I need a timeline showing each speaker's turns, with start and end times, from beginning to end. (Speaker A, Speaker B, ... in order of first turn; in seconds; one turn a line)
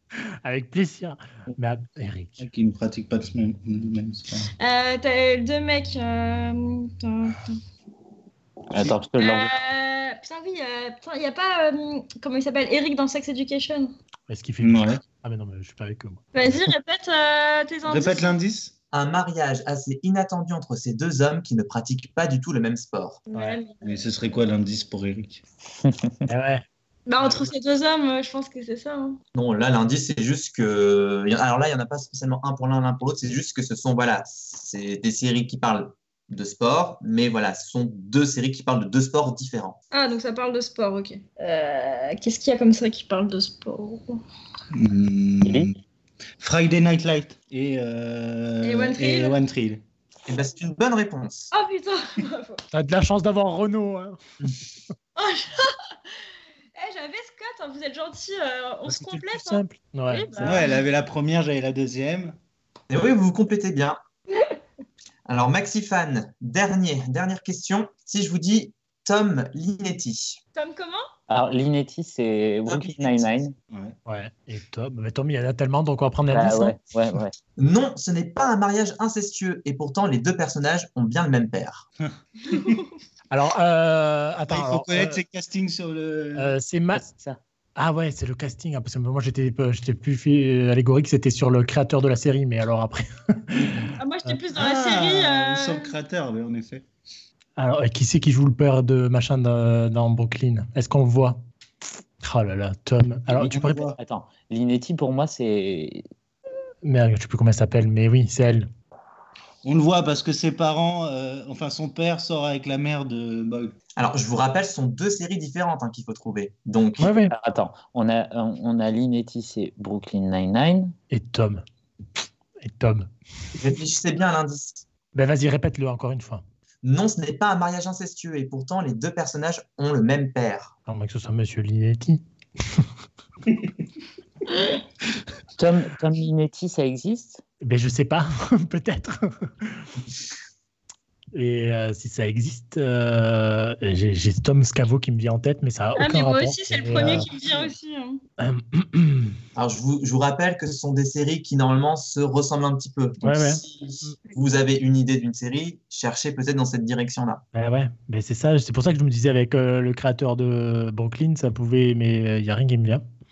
Speaker A: 0.1-2.5
Speaker B: 2.4-4.5
Speaker C: 4.6-7.6
Speaker D: 8.7-9.5
Speaker C: 9.2-13.9
Speaker A: 14.3-16.2
Speaker B: 14.6-15.0
Speaker C: 16.3-18.3
Speaker B: 17.9-18.7
Speaker E: 18.9-23.2
Speaker C: 23.3-24.0
Speaker A: 23.3-23.6
Speaker B: 23.8-25.4
Speaker D: 25.8-26.3
Speaker A: 26.3-26.6
Speaker C: 27.1-29.2
Speaker A: 27.2-27.5
Speaker E: 29.3-39.8
Speaker C: 39.9-44.2
Speaker B: 44.7-45.7
Speaker D: 45.4-45.7
Speaker B: 46.4-49.8
Speaker C: 48.6-49.4
Speaker E: 50.3-51.5
Speaker C: 51.5-52.6
Speaker A: 52.7-54.2
Speaker C: 55.1-56.1
Speaker C: 56.7-60.8
Speaker A: 58.9-60.6
Speaker B: 60.4-62.4
Speaker E: 62.9-64.0
Speaker E: 65.3-70.4
Speaker C: 70.5-71.1
Speaker D: 71.3-73.5
Speaker E: 72.7-73.4
Speaker B: 73.7-74.0
Speaker A: 74.0-76.8
Speaker D: 76.3-77.3
Speaker E: 77.6-81.8
Speaker B: 82.0-82.8
Speaker C: 82.5-82.9
Speaker A: 83.3-85.2
Speaker B: 84.5-86.5
Speaker A: 86.3-87.1
Speaker D: 86.9-87.4
Speaker A: 87.8-94.4
Speaker C: 94.0-96.0
Speaker B: 94.5-96.9
Speaker A: 97.6-101.4
Speaker A: 102.2-103.9
Speaker B: 103.3-104.0
Speaker D: 104.0-106.0
Speaker A: 106.8-108.7
Speaker B: 109.6-113.7
Speaker E: 114.0-117.1
Speaker A: 117.0-117.3
Speaker D: 117.3-120.9
Speaker A: 121.1-121.6
Speaker A: 122.6-123.1
Speaker E: 123.6-124.9
Speaker A: 125.1-126.4
Speaker E: 126.8-130.7
Speaker A: 130.8-132.9
Speaker D: 135.6-137.4
Speaker A: 137.6-139.9
Speaker A: 141.3-147.3
Speaker C: 145.9-148.2
Speaker B: 147.0-147.7
Speaker A: 148.4-149.3
Speaker E: 149.5-157.4
Speaker A: 153.2-154.1
Speaker A: 157.5-163.0